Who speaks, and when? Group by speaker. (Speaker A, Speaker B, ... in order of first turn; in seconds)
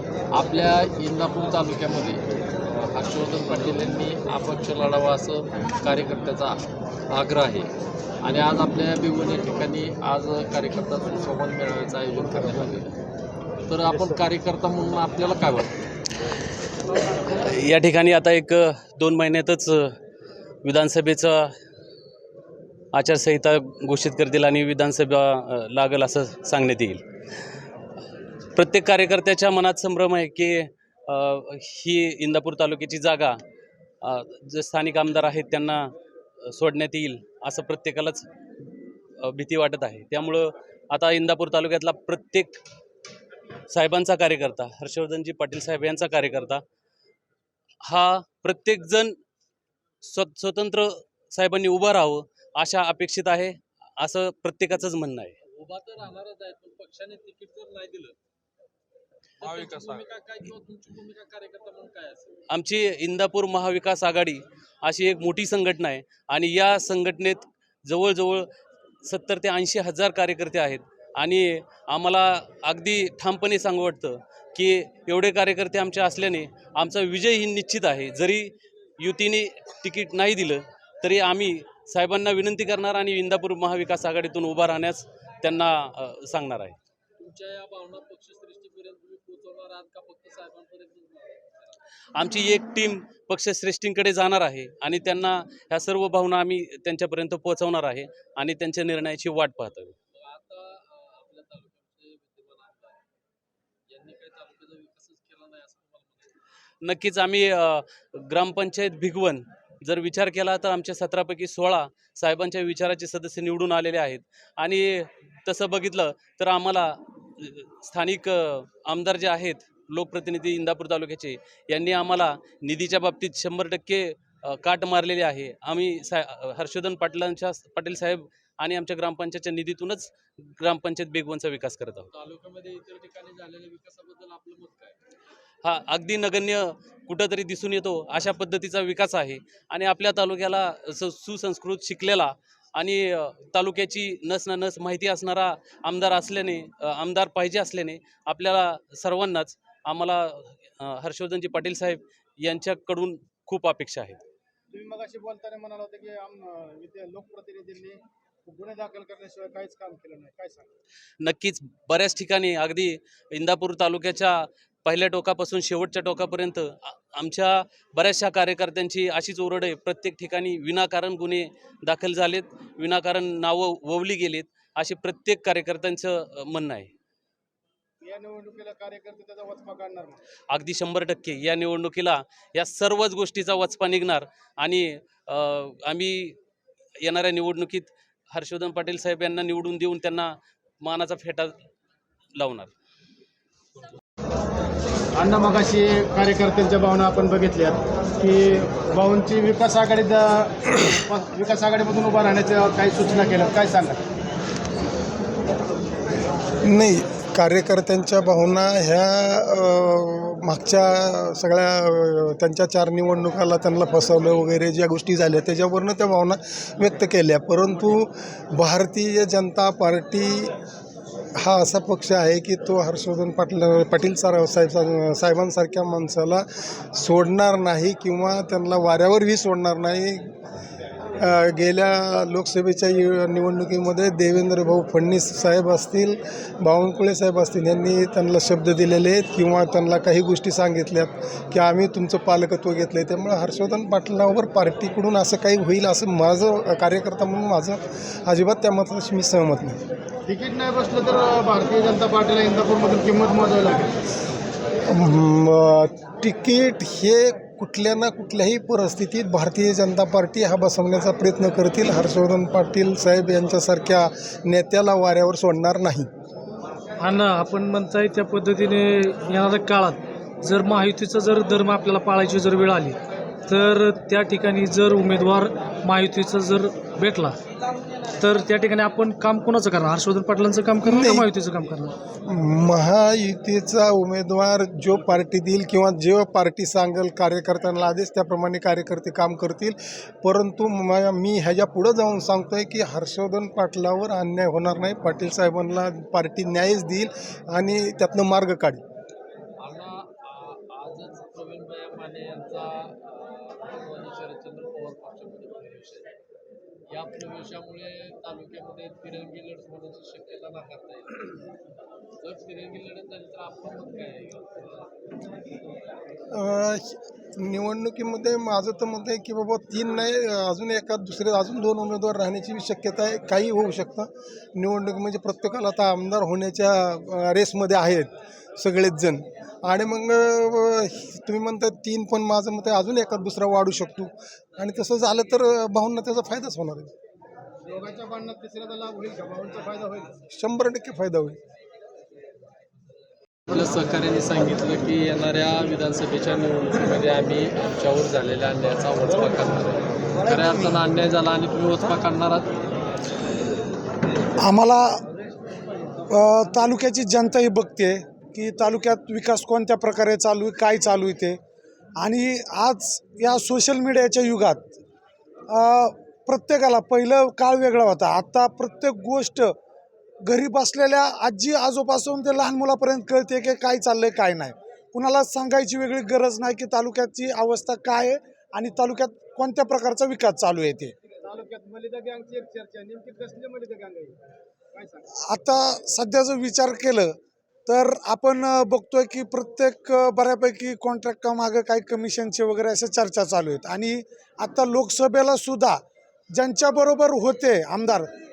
Speaker A: 0.3-12.9, 13.7-15.7, 55.5-58.1, 59.4-62.4, 87.2-91.6, 100.1-103.0, 103.9-106.3, 132.1-134.9, 299.6-306.1, 306.9-311.4, 312.2-314.9, 343.5-352.5
Speaker B: 17.3-19.9, 20.6-21.5, 22.9-27.0, 28.5-33.4, 34.0-35.8, 36.4-38.3, 39.2-42.6, 43.7-46.6, 47.9-49.1, 50.0-55.3, 62.5-68.5, 69.0-86.8, 92.2-100.0, 106.8-132.1, 135.6-154.2, 161.2-176.9, 180.5-186.4, 187.0-191.5, 192.4-192.7
Speaker C: 154.7-160.7, 178.0-180.2, 195.1-204.0, 250.2-253.9, 337.6-340.1, 381.2-384.1, 384.7-385.0
Speaker D: 206.7-220.5, 221.4-230.3, 231.2-249.8, 254.9-266.1, 280.8-281.3, 282.2-298.8, 316.3-336.9, 340.3-341.4
Speaker E: 267.0-273.0, 273.5-277.4, 278.2-281.9
Speaker F: 354.4-355.0, 356.1-361.4, 362.0-364.7, 365.5-369.5, 370.2-380.9, 385.1-395.8, 396.3-398.1